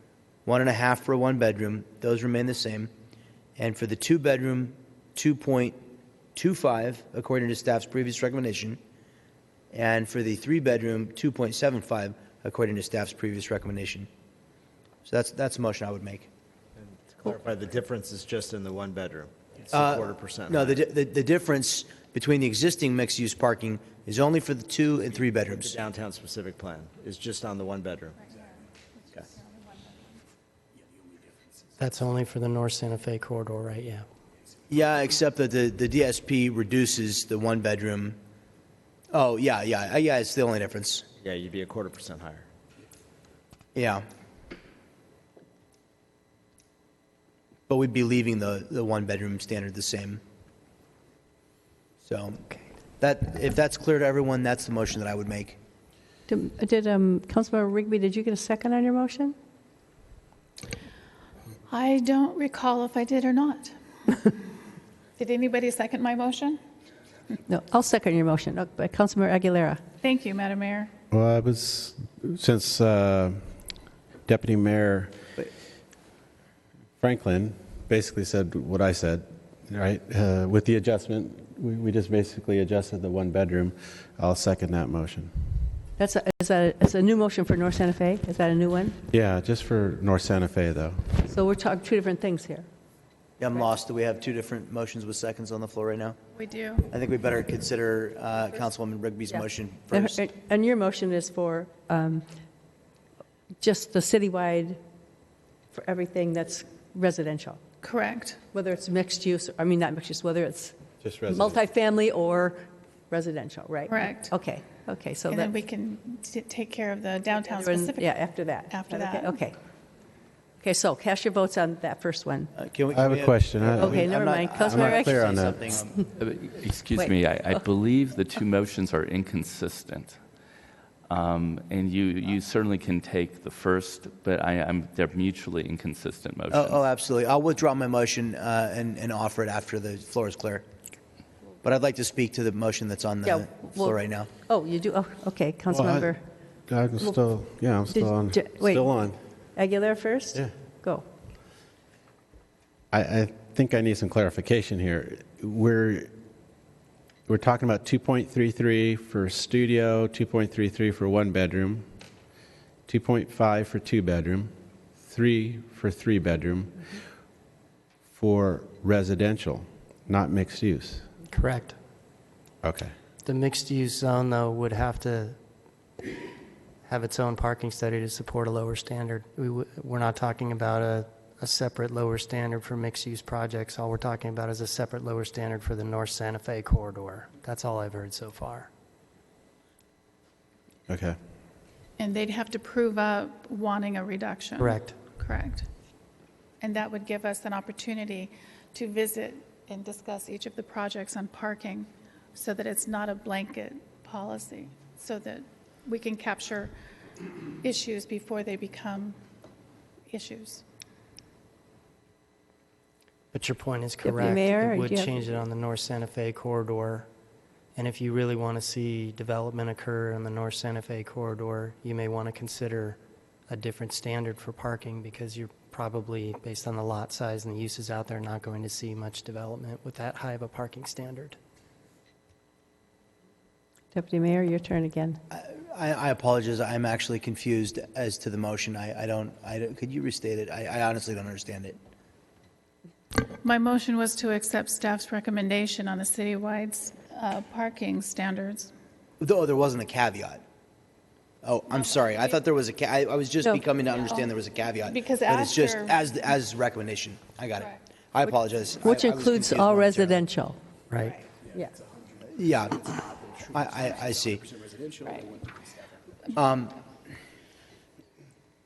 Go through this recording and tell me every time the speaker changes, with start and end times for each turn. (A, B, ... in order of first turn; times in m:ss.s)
0:00.4-0:02.9 A
0:03.6-0:05.8 A
0:06.4-0:08.8 A
0:09.7-0:14.1 A
0:15.0-0:16.3 A
0:16.8-0:20.8 B
0:19.7-0:25.8 A
0:25.6-0:28.2 B
0:28.3-0:30.2 C
0:31.8-0:34.0 D
0:34.7-0:38.2 A
0:39.1-0:41.0 A
0:41.2-0:42.4 B
0:43.7-0:44.0 A
0:47.7-0:50.2 A
0:52.0-0:52.4 A
0:53.0-0:55.6 A
0:56.3-0:59.3 E
1:01.7-1:03.8 C
1:05.2-1:06.6 C
1:07.5-1:09.8 E
1:10.0-1:10.9 C
1:11.1-1:13.4 F
1:14.2-1:15.1 F
1:17.0-1:25.3 F
1:26.0-1:29.0 E
1:29.1-1:31.1 F
1:31.3-1:32.6 E
1:33.4-1:36.2 A
1:36.3-1:36.9 C
1:36.9-1:40.2 A
1:39.3-1:42.2 E
1:43.6-1:44.8 E
1:45.7-1:47.6 E
1:47.8-1:48.4 C
1:48.4-1:50.7 E
1:51.0-1:51.6 F
1:51.3-1:55.5 E
1:53.9-1:54.3 C
1:55.3-1:59.4 C
1:57.6-1:59.6 E
2:00.6-2:02.5 E
2:02.5-2:05.9 A
2:02.9-2:04.1 F
2:03.8-2:06.0 E
2:04.6-2:05.6 F
2:06.0-2:10.2 G
2:06.9-2:07.6 E
2:11.1-2:16.8 G
2:16.5-2:20.6 A
2:21.6-2:24.3 A
2:23.2-2:26.2 E
2:25.7-2:26.1 F
2:26.7-2:29.2 F
2:27.9-2:28.9 E
2:29.5-2:31.0 E
2:32.9-2:36.1 F
2:37.3-2:41.8 F
2:42.9-2:47.0 F
2:48.1-2:51.1 F
2:51.3-2:51.8 D
2:52.6-2:52.9 F
2:53.2-2:55.4 D
2:56.8-3:08.7 D
3:10.9-3:11.2 F
3:12.0-3:15.7 C
3:14.6-3:15.0 D
3:16.6-3:26.7 C
3:27.6-3:29.2 C
3:30.1-3:30.6 C
3:33.3-3:37.1 D
3:34.0-3:35.2 E
3:37.7-3:51.4 D
3:53.9-3:55.2 E
3:55.3-4:01.8 A
4:03.4-4:08.7 C
4:09.2-4:10.4 A
4:11.4-4:20.2 A
4:11.7-4:12.0 C
4:14.0-4:14.3 C
4:14.8-4:16.0 C
4:18.2-4:20.6 E
4:21.4-4:21.8 E
4:22.3-4:24.4 A
4:25.0-4:25.3 C
4:26.3-4:26.8 A